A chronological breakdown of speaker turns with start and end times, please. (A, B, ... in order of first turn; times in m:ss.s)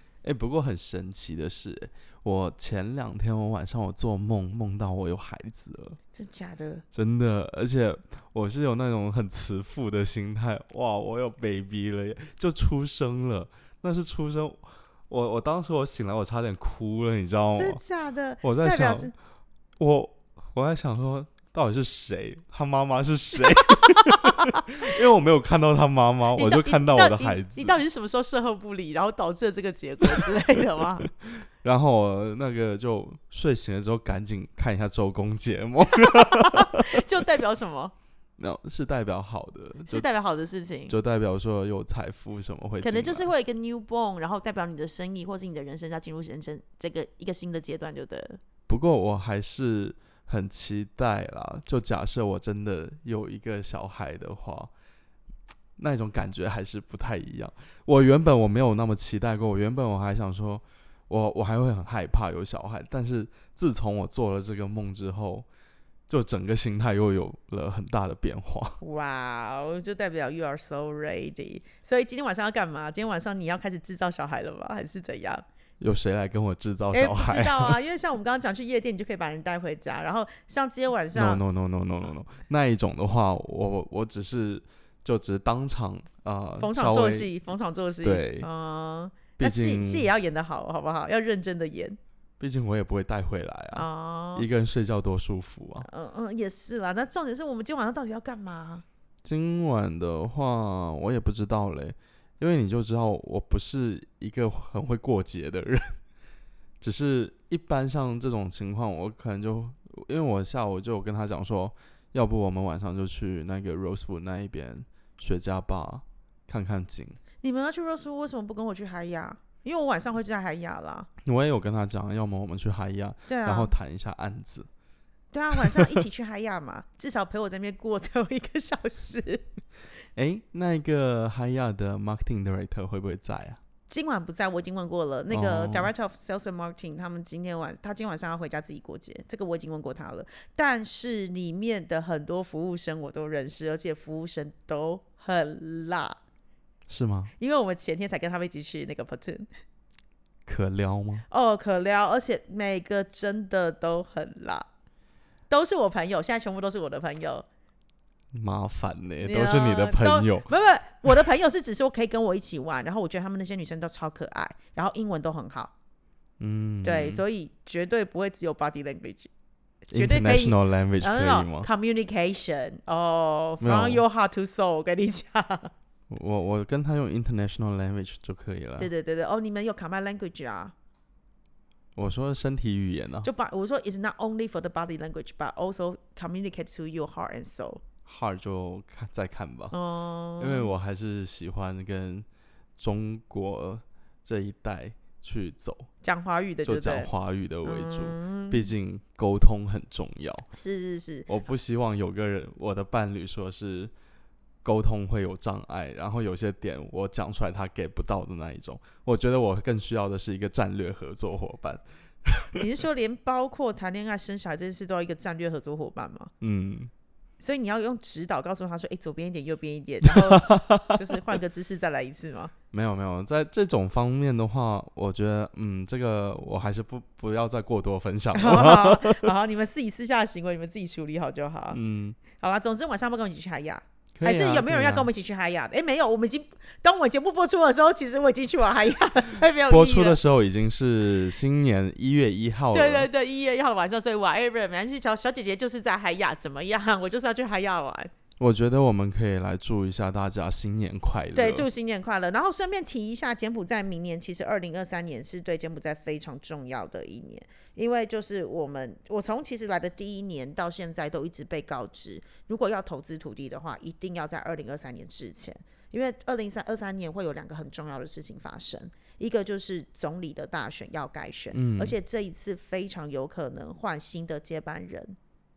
0:00.2-0:06.0 A
0:06.1-0:06.8 B
0:06.9-0:17.8 A
0:17.5-0:19.1 B
0:18.4-0:19.1 A
0:19.8-0:27.8 A
0:23.6-0:24.3 B
0:26.4-0:31.1 B
0:31.6-0:37.0 A
0:36.0-0:37.9 B
0:38.4-0:40.1 A
0:39.9-0:41.0 B
0:40.9-0:43.3 A
0:42.8-0:48.4 B
0:48.7-0:54.7 A
0:55.8-1:05.5 A
1:06.1-1:08.8 A
1:08.8-1:15.4 B
1:15.8-1:17.8 A
1:16.9-1:21.4 B
1:21.1-1:27.3 A
1:26.6-1:32.0 B
1:28.0-1:28.5 A
1:29.4-1:30.1 A
1:32.4-1:35.9 A
1:33.7-1:34.5 B
1:35.8-1:38.8 B
1:39.2-1:46.0 A
1:46.8-1:57.2 A
1:57.4-2:01.1 B
2:01.2-2:04.7 A
2:03.3-2:03.7 B
2:05.3-2:09.4 B
2:10.2-2:13.6 A
2:13.9-2:26.2 B
2:15.3-2:15.9 A
2:26.9-2:27.3 A
2:27.4-2:29.5 B
2:30.5-2:31.2 A
2:31.3-2:34.7 B
2:35.5-2:37.5 B
2:38.3-2:40.5 A
2:39.2-2:45.7 B
2:46.4-2:47.2 A
2:46.8-2:49.3 B
2:49.9-2:55.7 B
2:49.9-2:51.7 A
2:53.6-2:54.0 A
2:56.1-2:58.9 A
2:58.8-3:00.7 B
3:02.0-3:03.3 A
3:03.2-3:07.8 B
3:08.1-3:09.7 A
3:09.7-3:10.7 B
3:10.4-3:12.3 A
3:12.8-3:15.9 A
3:16.0-3:17.1 B
3:16.6-3:20.5 A
3:17.6-3:18.7 B
3:20.5-3:21.3 B
3:21.3-3:23.9 A
3:24.6-3:32.6 A
3:32.6-3:36.3 B
3:36.4-3:36.9 A
3:37.4-3:42.5 B
3:40.1-3:41.0 A
3:42.7-3:49.3 A
3:48.3-3:51.8 B
3:51.7-3:52.2 A
3:52.3-4:00.2 B
3:54.2-3:55.1 A
3:59.7-4:03.1 A
4:02.7-4:08.1 B
4:08.4-4:11.7 A
4:11.3-4:35.2 B
4:31.5-4:32.0 A